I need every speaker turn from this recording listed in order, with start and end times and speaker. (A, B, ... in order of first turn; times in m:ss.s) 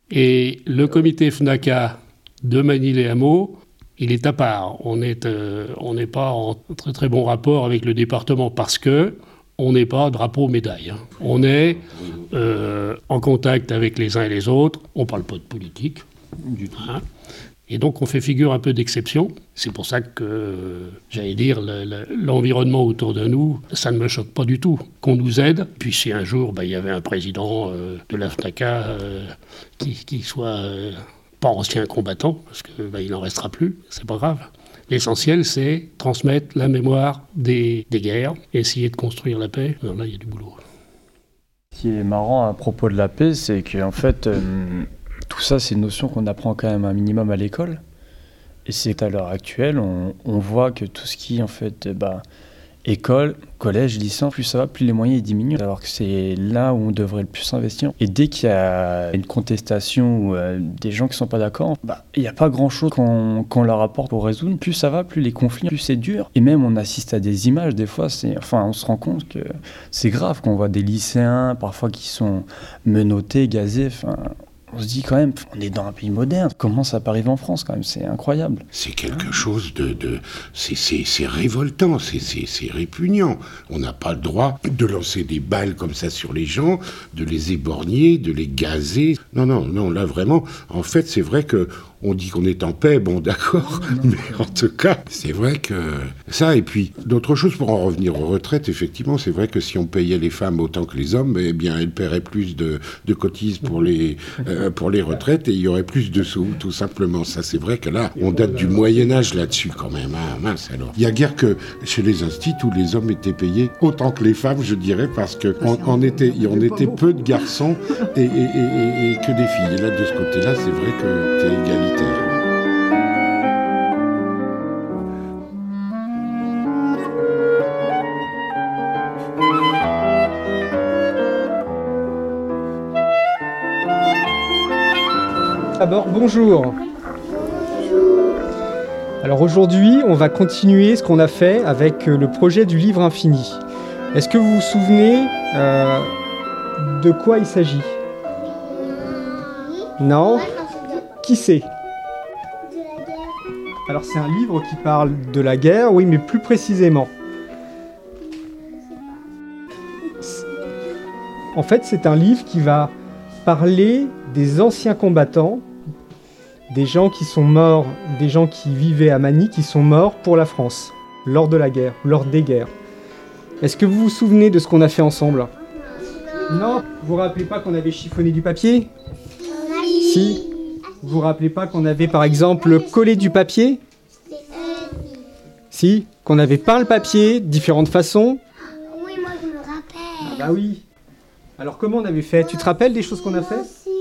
0:00.1-0:16.0 A
0:16.4-0:16.9 B
0:16.7-0:17.0 A
0:17.7-0:40.6 A
0:41.8-0:47.8 B
0:48.7-0:52.2 B
0:52.8-1:18.7 B
1:18.7-2:02.3 C
1:33.8-1:34.2 B
1:48.4-1:49.1 D
2:15.8-2:16.8 D
2:19.2-2:23.6 D
2:24.1-2:26.1 D
2:26.8-2:28.0 D
2:30.0-2:30.5 D
2:31.1-2:31.7 D
2:33.9-2:37.1 D
2:41.6-2:42.9 D
2:43.4-2:45.6 D
2:46.7-2:52.7 D
2:53.6-2:55.5 D
2:56.5-2:58.9 D
2:59.5-3:00.1 E
3:00.0-3:00.4 D
3:01.0-3:03.8 D
3:04.6-3:04.9 E
3:05.7-3:08.4 D
3:08.8-3:10.4 E
3:10.2-3:10.8 D
3:11.6-3:13.7 D